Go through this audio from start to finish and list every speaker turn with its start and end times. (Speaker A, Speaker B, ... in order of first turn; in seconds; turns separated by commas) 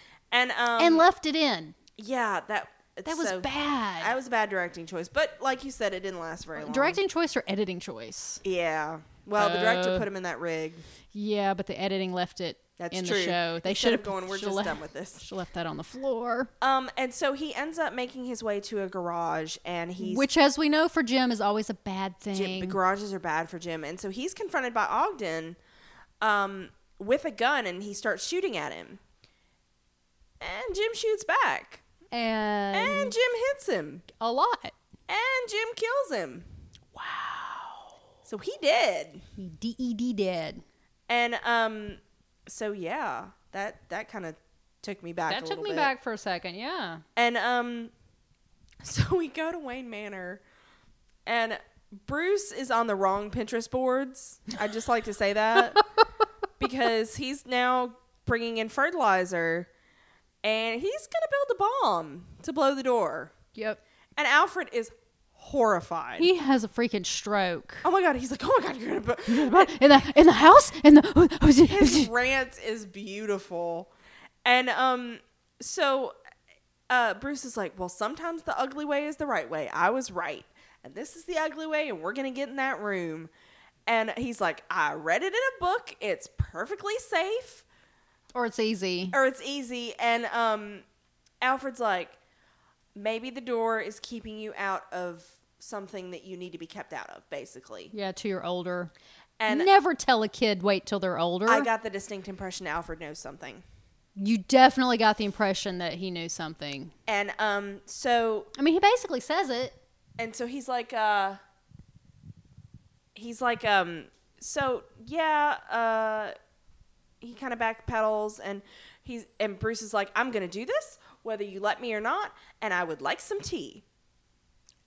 Speaker A: 0.3-1.1, Speaker B: 0.8-1.8, Speaker A: 2.0-7.0, Speaker B: 3.1-4.2, Speaker B: 6.6-8.4, Speaker A: 8.4-10.8, Speaker B: 9.4-10.1, Speaker B: 11.1-16.5, Speaker A: 12.8-15.3, Speaker A: 16.6-20.3, Speaker B: 20.0-22.8, Speaker A: 22.3-25.6, Speaker A: 26.2-29.0, Speaker A: 30.4-31.8, Speaker B: 32.1-33.1, Speaker A: 32.7-34.1, Speaker B: 34.1-34.8, Speaker A: 35.1-36.5, Speaker B: 36.9-38.0, Speaker A: 38.3-39.2, Speaker B: 39.4-40.6, Speaker A: 41.1-45.9, Speaker B: 45.3-47.0, Speaker A: 47.2-47.9, Speaker A: 48.8-50.4, Speaker A: 51.3-55.8, Speaker A: 56.6-59.7, Speaker A: 60.4-63.3, Speaker B: 63.5-63.8, Speaker A: 64.2-66.3, Speaker B: 66.2-67.8, Speaker A: 67.8-69.8, Speaker B: 69.3-72.1, Speaker A: 71.7-73.9, Speaker A: 74.5-76.2, Speaker A: 76.9-83.3, Speaker A: 83.9-87.7, Speaker B: 88.3-89.2, Speaker A: 89.1-90.8, Speaker A: 91.4-92.2, Speaker A: 93.0-97.9, Speaker B: 97.9-98.9, Speaker A: 99.4-99.7, Speaker B: 99.5-101.7, Speaker A: 101.5-103.6, Speaker B: 104.2-106.9, Speaker A: 107.1-108.5, Speaker B: 108.6-109.8, Speaker A: 110.2-111.4, Speaker A: 113.2-116.3, Speaker A: 117.2-123.8